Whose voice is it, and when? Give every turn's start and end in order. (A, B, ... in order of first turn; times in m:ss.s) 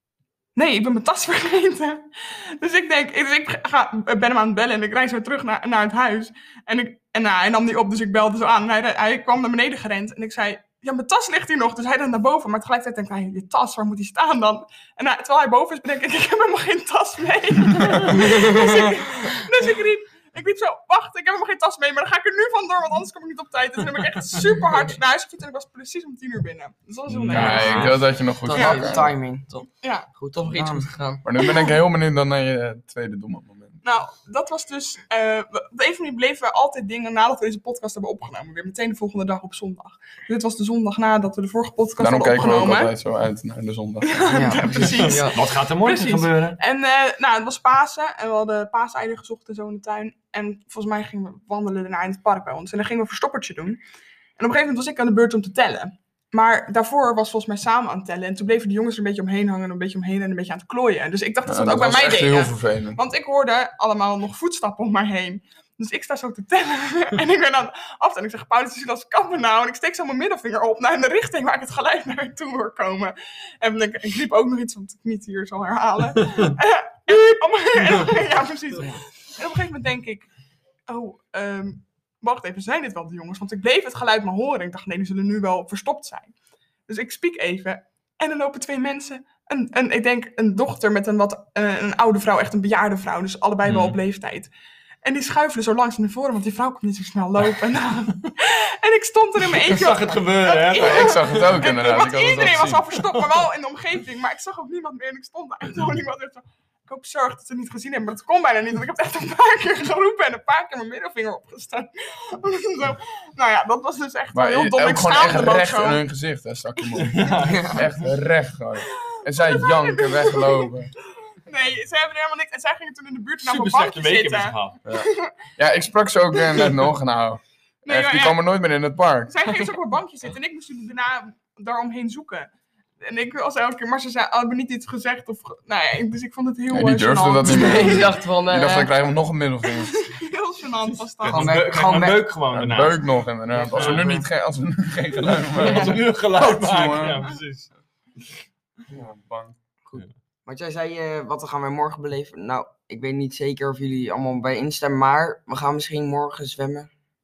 0:00.6-0:28.0 A
0:27.1-0:28.0 B
0:27.3-0:29.1 C
0:27.4-0:27.9 D
0:28.4-0:31.2 E
0:28.5-0:28.9 A
0:28.6-0:29.5 D
0:29.8-0:30.1 A
0:30.5-0:30.9 D
0:31.2-0:33.8 C
0:31.4-0:31.8 A
0:33.8-0:42.9 A
0:42.0-0:44.9 C
0:44.0-0:53.8 A
0:44.3-0:44.6 D
0:44.6-0:46.6 B
0:45.0-0:45.4 E
0:54.4-1:20.3 A
1:01.5-1:03.0 C
1:20.9-1:26.3 A
1:26.9-1:34.5 A
1:33.7-1:34.0 B
1:35.0-1:56.0 A
1:39.5-1:41.8 B
1:40.8-1:42.8 C
1:42.4-1:43.4 B
1:54.3-2:00.9 C
1:57.0-1:58.1 B
1:57.0-1:57.3 A
1:57.5-1:57.8 D
1:58.9-2:00.7 A
2:01.3-2:05.6 A
2:03.4-2:04.8 B
2:04.9-2:09.6 C
2:06.4-2:06.7 A
2:07.8-2:08.4 A
2:09.3-2:12.5 A
2:13.0-2:18.1 A
2:16.7-2:20.1 C
2:17.4-2:18.9 E
2:19.7-2:21.7 A
2:20.9-2:24.2 B
2:21.3-2:22.3 D
2:22.5-2:27.3 C
2:25.2-2:27.7 B
2:28.9-2:29.6 C
2:29.9-2:36.9 D